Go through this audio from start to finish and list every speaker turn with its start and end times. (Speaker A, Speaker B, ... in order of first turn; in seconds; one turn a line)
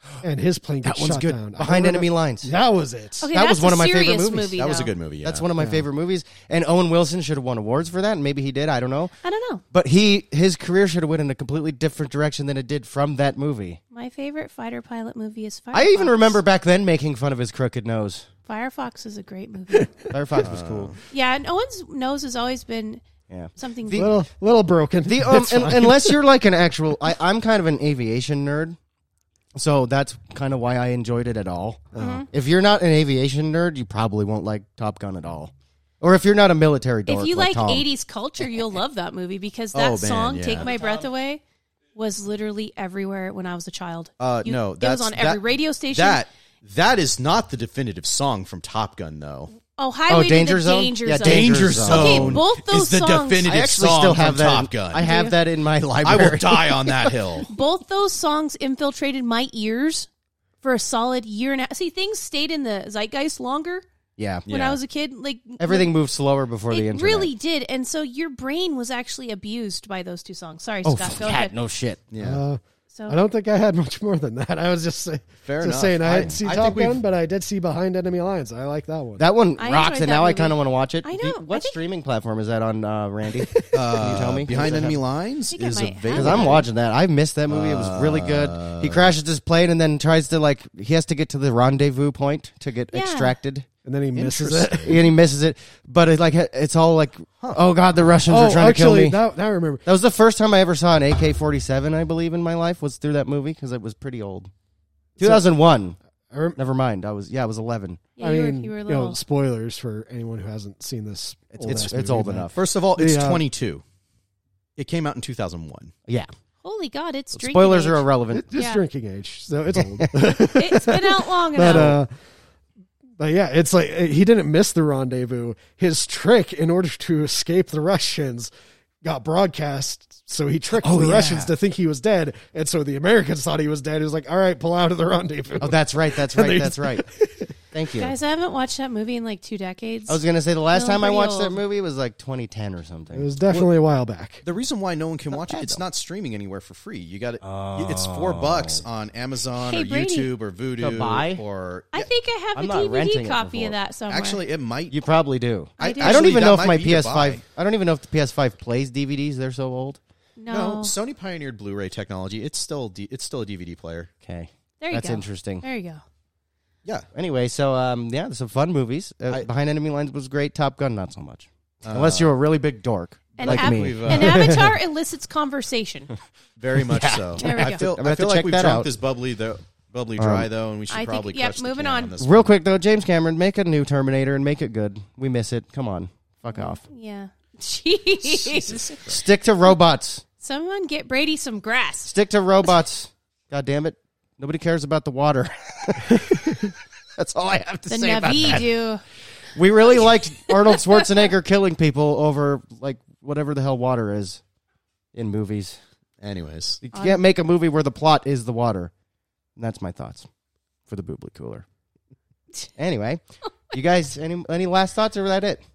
Speaker A: 0.2-3.3
Speaker B: 0.8-2.5
Speaker C: 3.2-4.9
Speaker B: 3.3-4.5
Speaker D: 4.6-5.5
Speaker B: 5.2-9.1
Speaker A: 5.6-5.8
Speaker C: 9.2-9.6
Speaker B: 9.7-13.8
Speaker C: 13.9-16.4
Speaker B: 15.7-18.3
Speaker C: 18.5-19.9
Speaker B: 20.1-20.9
Speaker D: 20.4-21.0
Speaker C: 21.1-23.0
Speaker B: 23.3-24.1
Speaker C: 23.6-24.1
Speaker A: 23.9-26.2
Speaker B: 25.0-28.8
Speaker B: 29.6-37.9
Speaker A: 31.9-32.2
Speaker C: 31.9-32.3
Speaker C: 37.0-41.4
Speaker D: 39.7-40.7
Speaker C: 41.9-46.2
Speaker D: 44.2-49.5
Speaker C: 49.8-53.4
Speaker B: 50.1-52.4
Speaker D: 51.2-55.1
Speaker B: 53.4-57.2
Speaker C: 55.0-55.3
Speaker D: 56.0-57.5
Speaker C: 57.5-60.1
Speaker C: 60.6-63.8
Speaker B: 64.2-64.5
Speaker D: 64.5-64.8
Speaker C: 64.5-65.9
Speaker B: 65.6-67.3
Speaker C: 66.7-71.5
Speaker B: 70.8-72.1
Speaker D: 72.1-72.4
Speaker A: 72.2-79.2
Speaker C: 72.9-73.2
Speaker D: 75.4-77.0
Speaker B: 79.2-85.0
Speaker C: 79.6-81.8
Speaker A: 83.4-84.9
Speaker D: 83.7-86.7
Speaker C: 85.5-86.7
Speaker B: 86.1-93.7
Speaker D: 87.5-89.1
Speaker C: 92.9-93.3
Speaker A: 93.8-95.1
Speaker D: 94.1-95.0
Speaker B: 94.8-99.2
Speaker A: 98.3-99.8
Speaker B: 99.8-104.5
Speaker A: 105.2-105.5
Speaker B: 105.2-106.0
Speaker A: 106.3-106.6
Speaker B: 106.5-108.0
Speaker C: 108.2-109.2
Speaker A: 108.2-113.4
Speaker B: 111.5-112.6
Speaker D: 111.6-113.8
Speaker D: 114.8-115.9
Speaker C: 116.6-118.8
Speaker B: 117.4-118.5
Speaker A: 118.3-122.1
Speaker B: 119.7-120.3
Speaker C: 120.5-122.0
Speaker B: 121.6-122.0
Speaker A: 123.2-128.5
Speaker A: 129.0-137.5
Speaker B: 130.8-131.5
Speaker B: 135.6-137.1
Speaker B: 137.7-138.1
Speaker C: 137.9-140.2
Speaker B: 140.1-143.6
Speaker C: 140.7-141.6
Speaker A: 143.1-144.4
Speaker D: 144.4-152.0
Speaker B: 145.3-145.8
Speaker B: 147.4-148.8
Speaker C: 149.6-150.3
Speaker B: 150.8-151.4
Speaker C: 151.9-154.4
Speaker B: 152.5-153.8
Speaker D: 154.1-155.0
Speaker B: 154.9-160.0
Speaker D: 155.8-157.4
Speaker C: 155.8-156.3
Speaker C: 160.4-160.9
Speaker D: 160.5-164.1
Speaker B: 164.2-165.6
Speaker C: 164.8-166.0
Speaker B: 167.1-174.6
Speaker D: 171.8-172.3
Speaker D: 173.3-174.6
Speaker C: 173.3-176.1
Speaker A: 174.1-174.7
Speaker D: 176.6-182.5
Speaker B: 176.8-178.9
Speaker C: 177.4-177.8
Speaker B: 180.2-180.5
Speaker C: 180.9-182.1
Speaker B: 182.2-186.8
Speaker C: 186.5-189.0
Speaker D: 188.5-189.2
Speaker B: 189.1-190.2
Speaker C: 190.4-192.1
Speaker B: 192.1-198.7
Speaker C: 197.9-199.0
Speaker B: 199.5-204.4
Speaker C: 200.5-201.0
Speaker B: 205.1-205.8
Speaker D: 206.2-206.8
Speaker B: 206.8-208.9
Speaker C: 206.9-207.2
Speaker B: 209.6-210.3
Speaker B: 210.9-211.6
Speaker B: 212.8-215.6